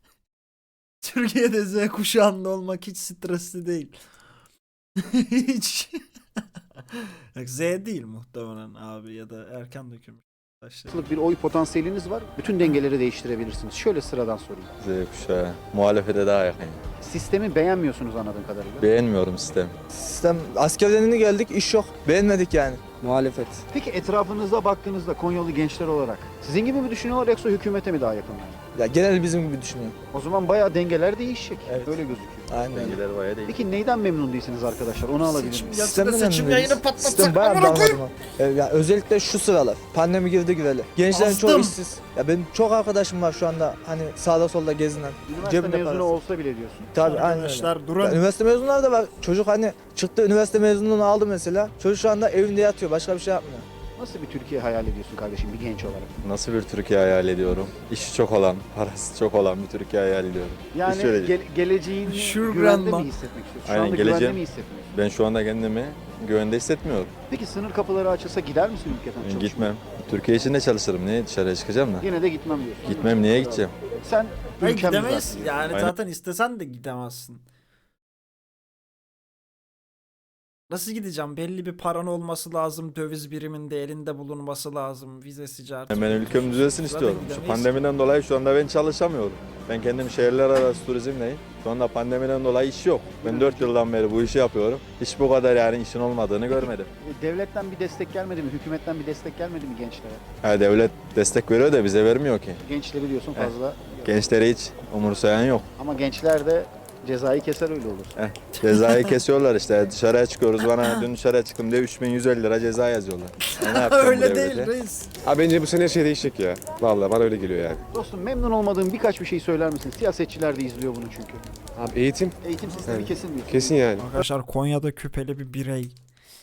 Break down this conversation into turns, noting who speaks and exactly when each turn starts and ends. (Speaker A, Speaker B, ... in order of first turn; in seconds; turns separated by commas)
Speaker A: 1.0-4.0, Speaker A: 5.0-6.0, Speaker A: 6.9-11.1, Speaker B: 10.9-14.7, Speaker C: 14.8-16.8, Speaker B: 17.0-18.9, Speaker C: 18.8-19.7, Speaker D: 19.9-23.6, Speaker B: 23.7-28.6, Speaker D: 28.8-30.0, Speaker B: 30.1-32.6, Speaker D: 31.7-33.0, Speaker C: 32.7-33.7, Speaker B: 33.5-35.9, Speaker A: 35.2-38.1, Speaker D: 35.9-46.2, Speaker A: 41.1-41.8, Speaker B: 45.3-46.9, Speaker D: 46.9-53.7, Speaker A: 47.0-48.2, Speaker B: 54.0-56.1, Speaker C: 56.2-61.4, Speaker B: 60.7-64.9, Speaker A: 62.0-63.1, Speaker C: 63.6-64.4, Speaker C: 64.9-67.1, Speaker B: 67.3-69.7, Speaker C: 69.2-72.1, Speaker B: 72.0-75.7, Speaker C: 72.8-73.7, Speaker A: 74.6-77.4, Speaker C: 75.7-75.9, Speaker A: 80.7-87.8, Speaker C: 85.9-96.9, Speaker B: 93.2-93.7, Speaker B: 96.5-100.2, Speaker C: 100.4-102.6, Speaker B: 102.6-104.1, Speaker C: 103.3-105.7, Speaker B: 105.8-108.2, Speaker C: 108.2-114.7, Speaker A: 108.6-109.2, Speaker A: 110.6-111.0, Speaker A: 113.5-115.1, Speaker E: 115.2-117.8, Speaker B: 117.9-121.4, Speaker E: 121.8-124.1, Speaker B: 122.4-123.8, Speaker A: 124.0-126.0